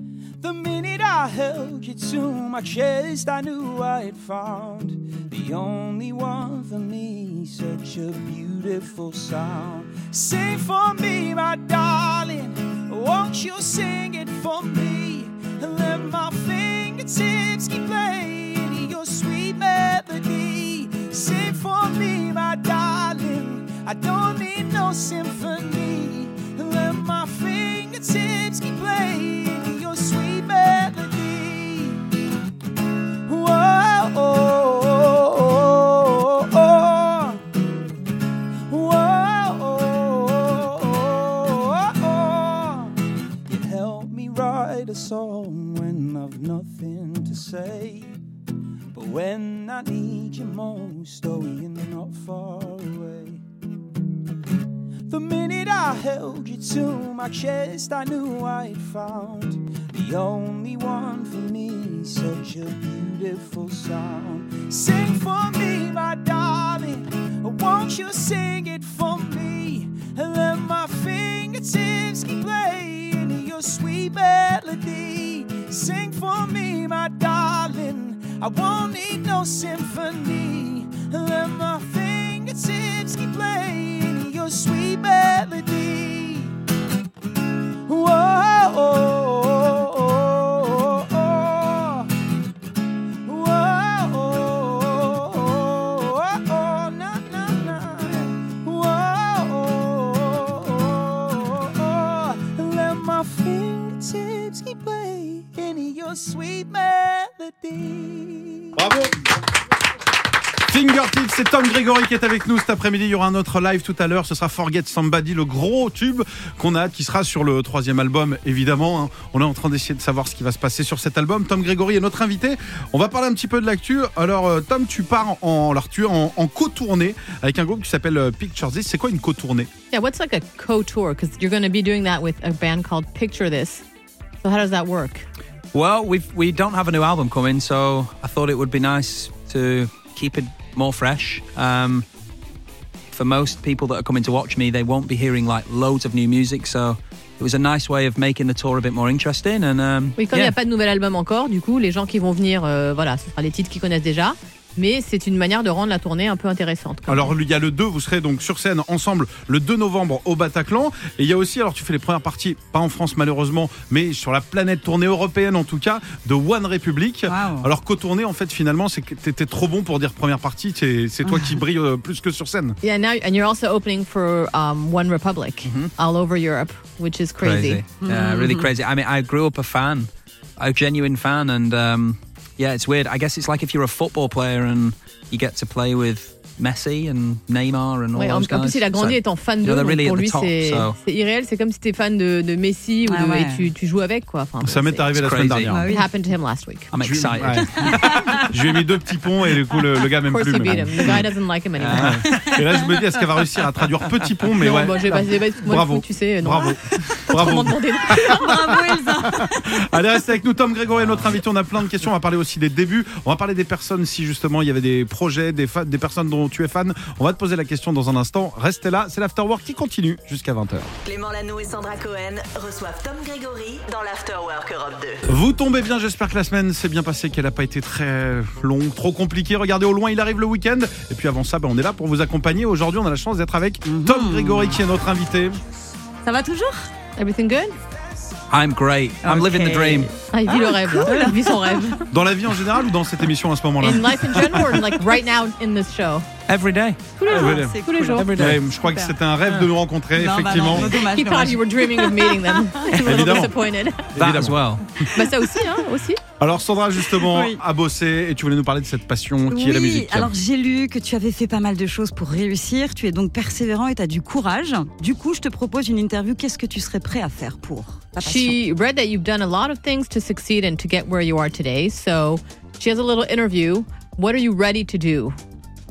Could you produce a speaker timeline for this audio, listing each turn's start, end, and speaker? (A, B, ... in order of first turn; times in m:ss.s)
0:00.4-0:32.1 A
0:33.2-0:37.4 A
0:38.7-0:42.9 A
0:43.4-0:48.1 A
0:48.9-0:53.4 A
0:55.1-1:26.5 A
1:27.8-1:32.1 A
1:33.2-1:48.8 A
1:48.8-1:49.2 B
1:50.7-2:09.7 B
2:09.9-2:13.8 C
2:14.4-2:15.2 C
2:15.7-2:22.0 D
2:23.1-2:30.5 D
2:30.2-2:37.3 C
2:37.1-2:52.8 B
2:47.3-2:47.7 E
2:51.3-2:51.5 E
2:52.8-2:57.8 C
2:55.6-2:55.9 D
2:57.4-3:11.0 D
2:58.0-2:58.7 E
3:08.1-3:15.1 C
3:13.0-3:13.7 E
3:14.6-3:15.9 B
3:15.1-3:15.8 D
3:15.7-3:16.1 E
3:15.9-3:16.9 C
3:16.9-3:18.4 D
3:17.0-3:21.2 B
3:17.7-3:18.4 E
3:20.2-3:22.2 C
3:21.8-3:22.6 D
3:21.9-3:40.9 B
3:24.6-3:28.6 C
3:28.2-3:29.8 E
3:31.0-3:31.4 D
3:41.0-3:45.2 F
3:45.3-3:55.6 B
3:53.8-3:54.8 E
3:56.2-3:56.9 E
3:57.2-3:57.8 C
3:58.5-4:00.1 D
3:59.2-4:02.0 E
4:00.2-4:02.0 C
4:02.1-4:04.9 B
4:03.8-4:06.3 C
4:06.5-4:07.1 D
4:07.2-4:08.3 C
4:07.3-4:07.8 B
4:07.3-4:09.1 E
4:08.1-4:08.6 D
4:08.3-4:10.9 B
4:09.4-4:09.7 D
4:10.1-4:12.8 E
4:10.9-4:14.1 C
4:12.9-4:13.5 B
4:13.0-4:13.4 D
4:14.1-4:14.6 B
4:14.2-4:14.8 D
4:15.1-4:16.2 C
4:16.4-4:20.3 B
4:17.1-4:17.6 E
4:19.5-4:28.6 E
4:28.2-4:35.4 C